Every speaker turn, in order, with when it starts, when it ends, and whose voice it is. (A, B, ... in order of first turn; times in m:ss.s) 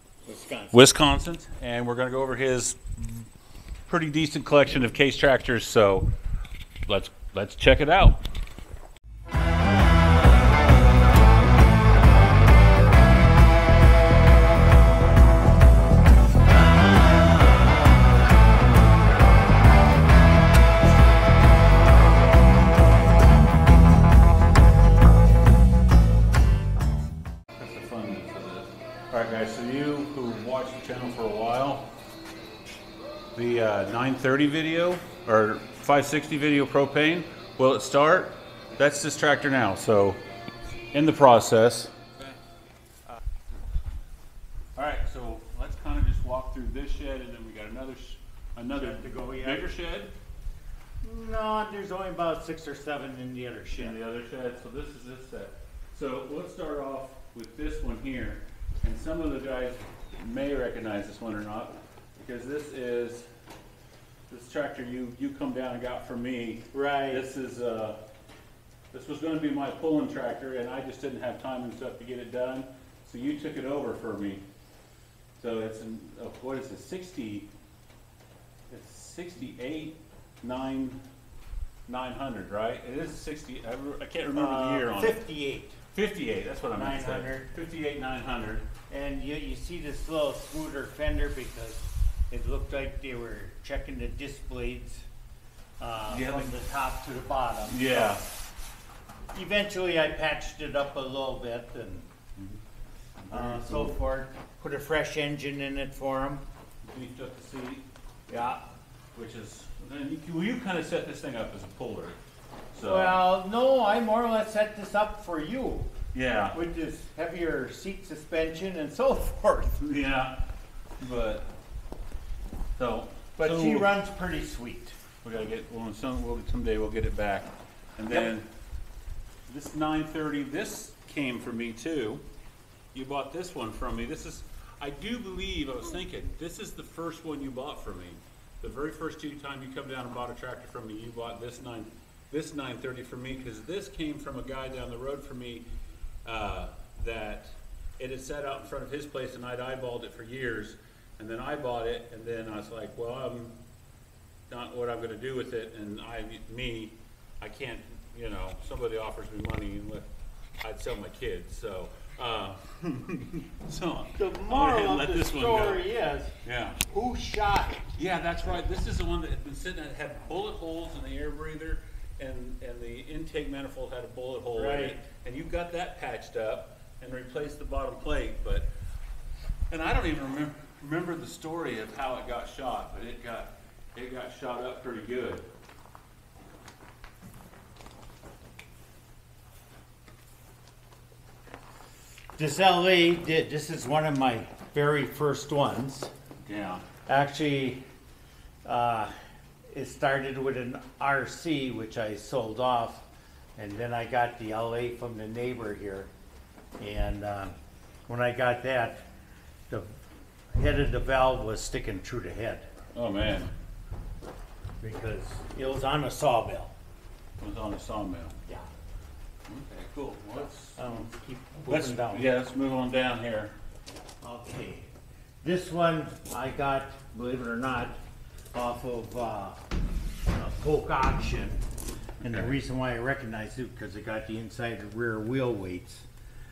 0:00.2-0:00.8 A
0:00.7-0:03.3 B
0:03.9-0:06.1 B
0:06.9-0:08.2 B
0:27.6-0:31.9 B
0:33.4-0:40.2 B
0:40.9-0:42.1 B
0:44.8-0:50.1 B
0:48.7-0:49.7 A
0:51.0-0:54.0 A
0:53.7-1:03.3 B
1:04.3-1:08.0 B
1:06.7-1:07.2 A
1:08.9-1:14.4 B
1:15.4-1:17.5 B
1:18.7-1:21.0 B
1:21.9-1:25.2 B
1:24.3-1:25.8 A
1:25.9-1:28.7 B
1:26.7-1:27.5 A
1:28.9-1:35.1 A
1:35.8-1:38.1 A
1:36.1-1:36.5 B
1:37.7-1:38.2 B
1:39.3-1:42.1 A
1:43.2-1:44.0 B
1:43.3-1:46.4 A
1:46.8-1:47.8 B
1:48.3-1:48.6 A
1:49.1-1:52.2 B
1:52.7-1:53.2 B
1:52.8-1:55.9 A
1:56.1-1:56.6 B
1:56.5-1:59.8 A
1:59.8-2:00.4 B
2:01.0-2:01.5 B
2:02.8-2:03.9 B
2:03.4-2:04.9 A
2:05.2-2:08.5 B
2:09.5-2:12.2 B
2:12.9-2:25.6 B
2:26.2-2:33.6 B
2:34.5-2:40.1 B
2:40.6-2:45.8 B
2:44.2-2:46.3 A
2:46.4-2:46.8 B
2:46.9-2:47.9 A
2:48.0-2:58.7 B
2:54.5-2:55.0 A
2:59.7-3:05.4 B
3:12.4-3:16.1 A
3:16.4-3:16.8 B
3:17.0-3:17.8 A
3:18.6-3:19.1 A
3:19.7-3:23.0 A
3:23.6-3:26.1 A
3:26.8-3:27.5 A
3:28.1-3:29.1 A
3:29.7-3:30.0 A
3:30.5-3:32.7 A
3:32.9-3:33.5 B
3:34.8-3:36.7 A
3:37.4-3:38.4 B
3:39.5-3:41.1 B
3:40.8-3:42.3 A
3:41.7-3:43.5 B
3:44.2-3:44.9 A
3:45.4-3:48.0 A
3:48.5-3:49.6 A
3:50.3-3:51.6 A
3:52.2-3:56.1 A